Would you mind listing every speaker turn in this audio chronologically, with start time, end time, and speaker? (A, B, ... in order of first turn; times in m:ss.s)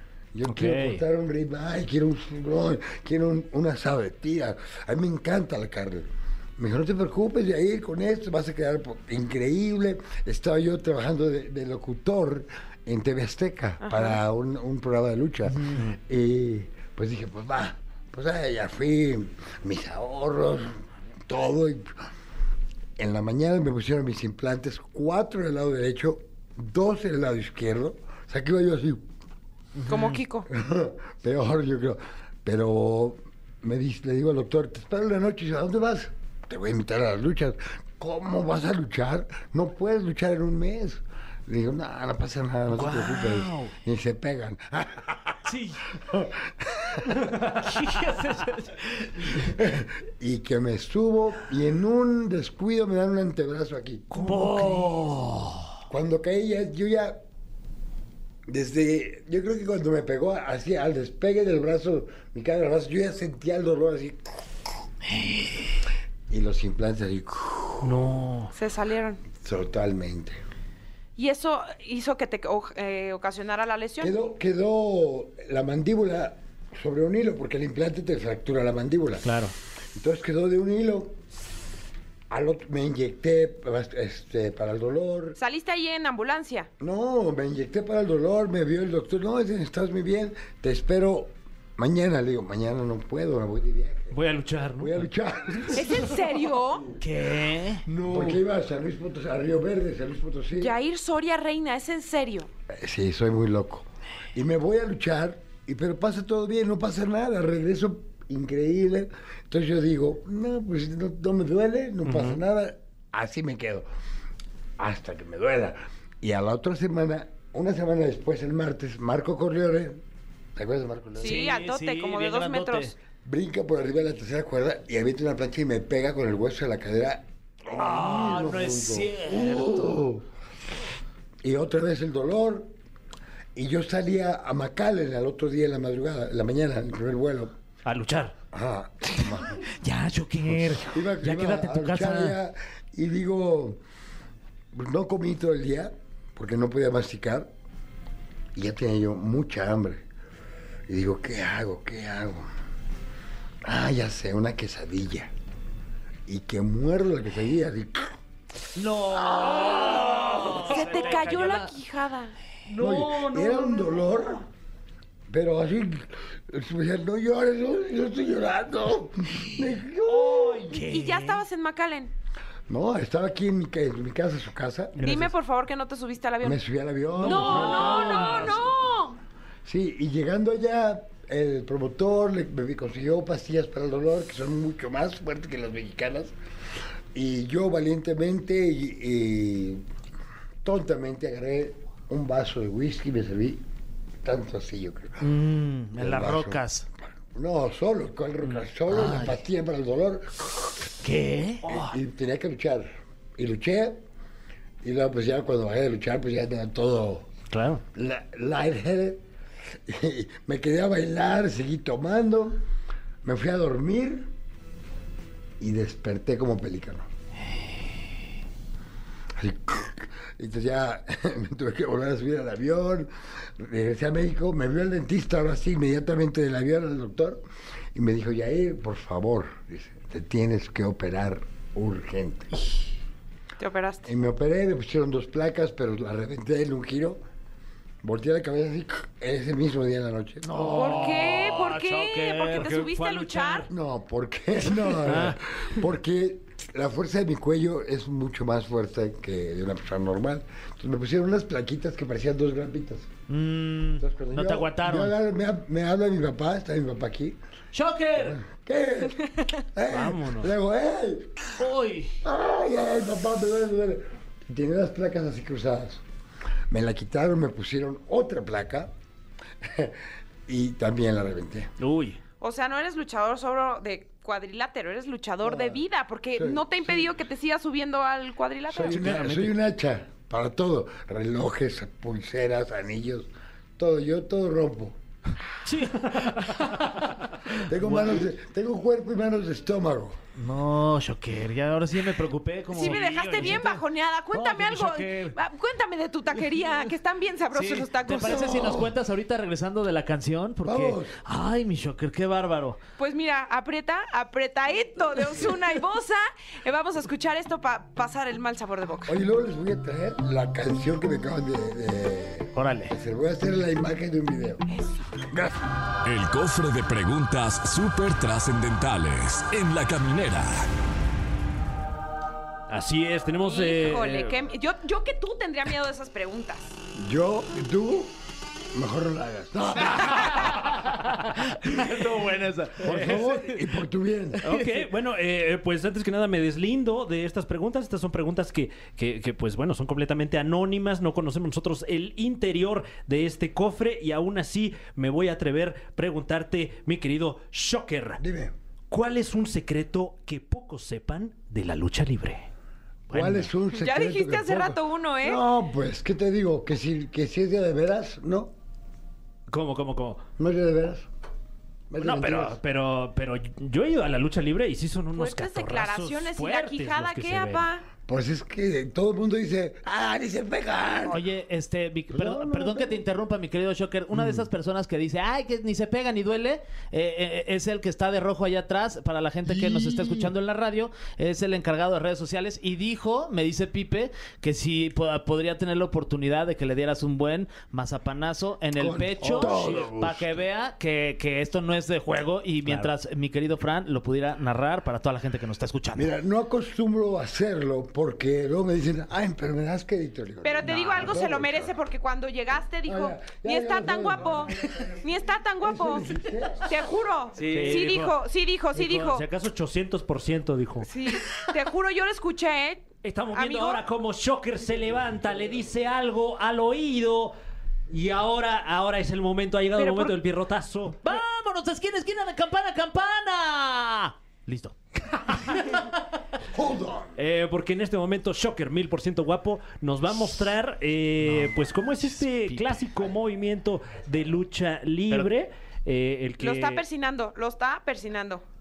0:00.3-0:22.0 A
0:00.4-0:01.0 B
0:13.8-0:14.2 C
0:15.5-0:15.9 D
0:23.0-0:29.1 A
0:29.8-0:30.2 D
0:29.9-0:30.5 C
0:30.5-0:45.4 A
0:42.7-0:43.7 D
0:45.4-0:45.8 D
0:46.0-0:47.1 A
0:47.2-0:48.1 B
0:47.6-0:48.8 D
0:49.3-0:54.1 A
0:54.1-0:55.7 D
0:54.1-0:54.8 B
0:55.9-0:57.2 A
0:58.5-1:04.3 A
1:06.3-1:08.0 A
1:07.8-1:08.5 B
1:08.5-1:09.2 C
1:09.4-1:10.4 A
1:11.2-1:14.1 C
1:14.0-1:19.3 A
1:19.2-1:19.5 B
1:19.9-1:21.2 A
1:22.3-1:25.4 A
1:25.4-1:26.7 C
1:26.8-1:34.2 A
1:34.1-1:35.6 B
1:34.8-1:37.0 A
1:35.7-1:37.0 C
1:37.0-1:37.9 D
1:37.8-1:40.7 A
1:40.6-1:42.5 C
1:42.7-1:53.9 A
1:52.0-1:52.4 B
1:54.8-2:00.0 A
2:00.5-2:01.5 A
2:01.2-2:02.9 C
2:01.2-2:02.9 D
2:03.2-2:10.2 A
2:07.7-2:10.0 D
2:11.4-2:12.7 A
2:13.5-2:17.6 A
2:17.8-2:18.3 B
2:18.5-2:19.6 A
2:19.7-2:22.4 D
2:20.5-2:23.8 A
2:24.7-2:27.5 A
2:28.5-2:30.0 A
2:30.9-2:32.5 A
2:33.6-2:35.3 A
2:36.3-2:38.1 A
2:38.7-2:41.7 D
2:39.1-2:40.8 A
2:40.4-2:41.2 B
2:40.7-2:42.4 C
2:42.7-2:43.9 B
2:42.8-2:44.4 A
2:45.3-2:50.8 A
2:50.1-2:50.8 B
2:50.7-2:51.4 D
2:50.7-2:52.1 C
2:52.7-2:55.0 A
2:55.0-2:56.6 C
2:56.4-2:58.6 A
2:57.2-2:58.6 B
2:57.2-2:58.5 D
2:57.2-2:59.2 C
2:59.6-3:06.3 A
3:07.1-3:09.8 A
3:10.6-3:13.6 A
3:14.2-3:15.3 A
3:15.2-3:16.8 D
3:15.9-3:20.7 A
3:18.9-3:19.4 D
3:21.0-3:21.9 D
3:21.6-3:24.0 A
3:24.8-3:27.3 A
3:27.5-3:27.8 B
3:27.9-3:29.2 A
3:29.8-3:32.6 A
3:33.2-3:34.3 A
3:35.6-3:37.1 A
3:39.4-3:47.4 A
3:47.9-3:52.8 A
3:53.6-3:54.1 C
3:54.0-3:57.2 A
3:58.0-4:01.1 A
4:00.4-4:02.7 D
4:00.7-4:03.7 C
4:02.5-4:03.7 B
4:03.7-4:13.1 A
4:05.0-4:05.3 B
4:05.1-4:05.4 D
4:13.3-4:15.1 D
4:14.0-4:17.4 A
4:17.7-4:18.4 D
4:18.1-4:21.5 A
4:19.9-4:20.5 B
4:21.6-4:22.2 D
4:22.2-4:26.0 A
4:26.7-4:28.9 A
4:29.6-4:31.7 A
4:31.8-4:32.2 B
4:32.4-4:39.1 C
4:35.4-4:35.8 A
4:36.3-4:37.2 A
4:38.7-4:45.0 A
4:39.0-4:39.5 B
4:39.0-4:39.4 D
4:45.6-4:46.8 D
4:46.1-4:46.6 B
4:47.5-4:50.2 A
4:47.8-4:48.2 D
4:50.4-4:55.3 D
4:52.7-4:58.6 C
4:52.8-4:53.7 B
4:57.5-5:02.8 D
4:58.2-4:58.9 A
5:00.6-5:01.2 A
5:03.0-5:09.2 C
5:09.0-5:14.6 A
5:12.5-5:12.9 D
5:15.2-5:15.6 A
5:16.0-5:20.7 E
5:22.7-5:24.4 B
5:23.4-5:26.8 C
5:27.0-5:28.1 A
5:28.7-5:30.6 A
5:30.2-5:33.6 D
5:32.8-5:34.4 A
5:32.9-5:33.2 B
5:34.4-5:34.8 D
5:34.4-5:48.2 B
5:48.2-5:48.5 A
5:48.9-5:52.5 B
5:53.1-5:53.5 B
5:53.1-5:58.5 A
5:53.7-5:55.4 C
5:59.5-6:00.2 B
6:00.4-6:01.1 A
6:01.9-6:02.6 A
6:02.0-6:07.7 B
6:05.1-6:07.8 C
6:08.0-6:11.2 A
6:11.0-6:36.1 D
6:12.1-6:13.0 A
6:14.1-6:14.4 A
6:19.4-6:20.3 A
6:28.8-6:30.4 A
6:29.2-6:29.9 B
6:35.9-6:41.7 A
6:40.4-6:49.2 C
6:40.6-6:41.0 B
6:40.7-6:41.0 D
6:42.8-6:44.9 A
6:45.6-6:46.8 A
6:47.4-6:48.1 D
6:47.4-6:48.1 B
6:48.8-6:50.9 B
6:50.8-6:53.8 C
6:53.0-6:57.3 B
6:57.9-7:01.0 B
6:59.8-7:00.1 C
7:01.0-7:05.6 D
7:06.5-7:07.2 A
7:07.2-7:16.8 B
7:11.2-7:12.9 D
7:16.4-7:18.4 C